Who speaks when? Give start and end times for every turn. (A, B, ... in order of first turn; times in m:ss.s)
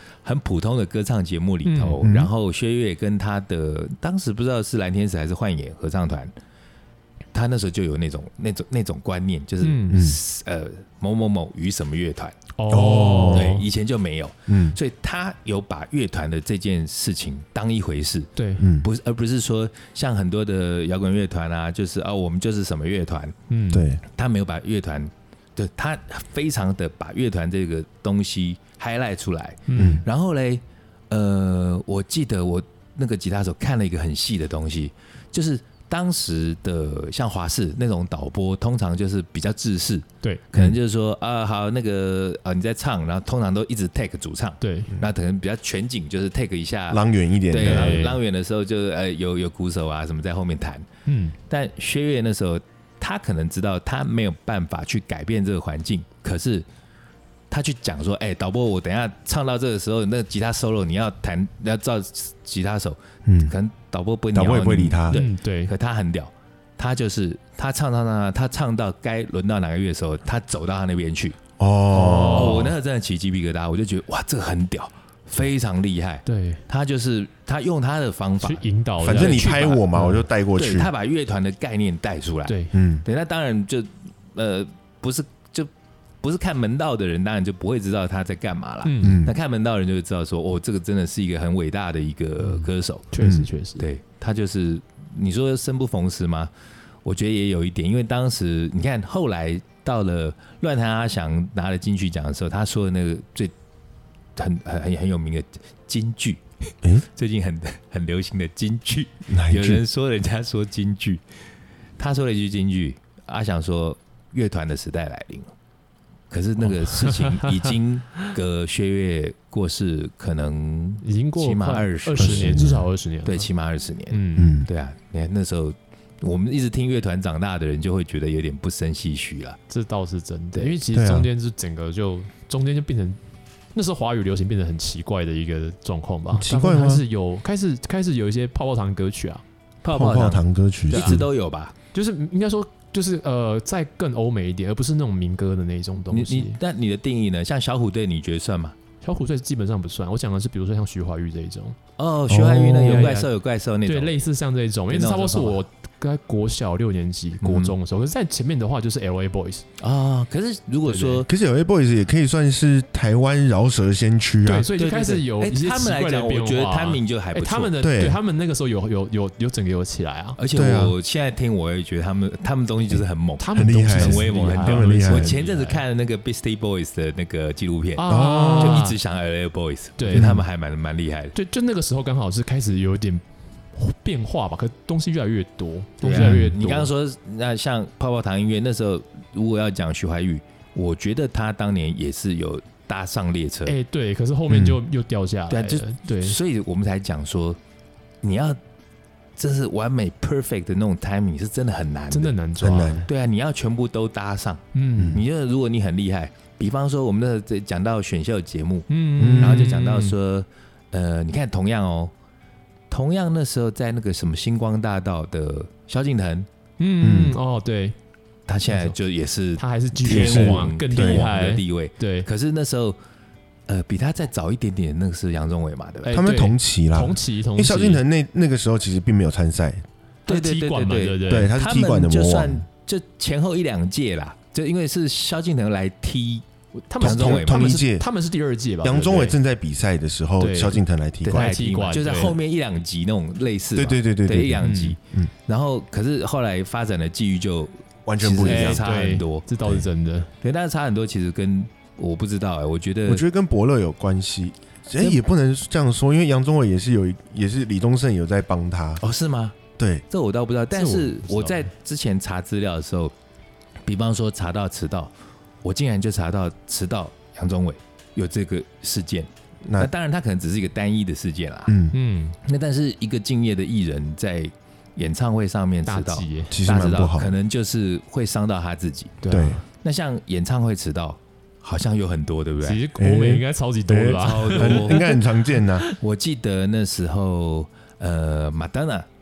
0:00.2-0:06.3 A
0:01.6-0:02.0 B
0:02.0-0:02.3 C
0:07.3-0:12.4 A
0:09.6-0:10.0 B
0:09.9-0:10.2 C
0:12.6-0:13.7 B
0:12.7-0:13.6 C
0:13.3-0:18.3 A
0:14.5-0:14.8 C
0:18.4-0:18.7 B
0:18.6-0:18.9 C
0:18.8-0:23.4 A
0:23.5-0:23.9 B
0:23.7-0:24.0 C
0:24.1-0:50.9 A
0:29.7-0:30.0 B
0:29.8-0:30.0 C
0:44.6-0:44.9 B
0:46.9-0:48.1 C
0:47.6-0:48.2 B
0:51.1-0:51.4 B
0:51.5-0:56.7 A
0:57.5-1:11.4 A
1:03.2-1:03.5 C
1:04.3-1:05.2 C
1:05.1-1:05.7 B
1:11.6-1:12.7 C
1:11.9-1:12.7 B
1:12.3-1:19.8 A
1:16.3-1:16.6 B
1:18.4-1:20.3 B
1:19.0-1:20.9 C
1:20.6-1:25.7 A
1:22.5-1:22.8 B
1:22.7-1:23.0 C
1:26.2-1:33.1 A
1:28.8-1:29.2 B
1:29.0-1:29.3 C
1:32.4-1:33.8 B
1:33.2-1:33.5 C
1:33.8-1:36.5 A
1:37.0-1:43.5 A
1:44.4-1:46.4 A
1:47.0-1:51.2 A
1:49.3-1:49.8 C
1:52.0-1:55.5 A
1:56.3-2:02.7 A
1:56.7-1:57.7 B
2:01.0-2:03.5 B
2:02.2-2:02.9 C
2:03.2-2:09.6 A
2:04.1-2:04.6 B
2:04.4-2:04.7 C
2:09.7-2:13.2 B
2:10.9-2:11.3 C
2:13.7-2:19.4 B
2:16.3-2:17.0 C
2:19.8-2:21.8 A
2:19.9-2:21.2 C
2:20.9-2:21.2 B
2:21.9-2:26.6 B
2:26.1-2:28.8 A
2:29.0-2:31.8 B
2:32.0-2:34.2 A
2:32.3-2:33.1 C
2:32.8-2:33.3 B
2:33.8-2:39.7 B
2:34.9-2:35.6 A
2:37.4-2:37.7 A
2:39.8-2:41.3 A
2:40.9-2:41.2 B
2:41.3-2:44.7 C
2:44.5-2:50.4 B
2:44.8-2:47.7 A
2:47.8-2:48.2 C
2:50.4-3:01.3 A
2:50.5-2:50.9 C
2:53.4-2:55.8 B
2:53.5-2:55.3 C
2:58.0-2:59.0 B
2:58.1-2:58.9 C
3:00.0-3:00.4 B
3:00.1-3:00.4 C
3:01.3-3:03.2 B
3:03.7-3:06.9 B
3:06.0-3:13.8 A
3:06.1-3:06.6 C
3:13.7-3:16.4 B
3:14.5-3:14.8 C
3:15.5-3:17.6 A
3:18.2-3:18.6 A
3:19.4-3:22.3 A
3:22.1-3:23.1 B
3:22.6-3:23.1 C
3:23.1-3:32.1 A
3:24.7-3:25.2 B
3:25.0-3:25.2 C
3:28.9-3:30.2 B
3:29.2-3:29.7 C
3:32.9-3:36.5 A
3:36.8-3:38.0 B
3:37.0-3:37.4 C
3:38.5-3:43.0 A
3:38.7-3:38.9 B
3:39.6-3:42.3 B
3:40.1-3:41.3 C
3:43.7-3:46.2 A
3:46.0-3:48.0 B
3:46.1-3:49.8 C
3:50.3-3:51.5 B
3:50.3-3:56.4 A
3:51.3-3:52.6 C
3:56.9-3:59.4 B
3:57.0-3:57.8 A
3:57.0-3:58.1 C
3:58.8-4:01.5 C
4:00.4-4:02.4 B
4:01.2-4:09.4 A
4:03.8-4:05.3 C
4:04.6-4:05.0 B
4:08.1-4:08.8 C
4:08.4-4:10.3 B
4:10.4-4:13.2 A
4:13.1-4:19.0 C
4:19.0-4:19.6 A
4:19.8-4:20.0 C
4:20.1-4:23.1 A
4:20.7-4:21.7 B
4:23.9-4:25.1 A
4:25.6-4:31.8 A
4:29.6-4:29.9 C
4:31.7-4:32.0 C
4:31.9-4:32.4 B
4:32.4-4:39.2 A
4:35.9-4:36.6 B
4:36.5-4:37.3 C
4:39.2-4:39.6 B
4:39.3-4:39.6 C
4:39.8-4:42.8 A
4:42.6-4:46.0 B
4:43.0-4:45.9 C
4:44.2-4:45.1 A
4:46.0-4:49.1 A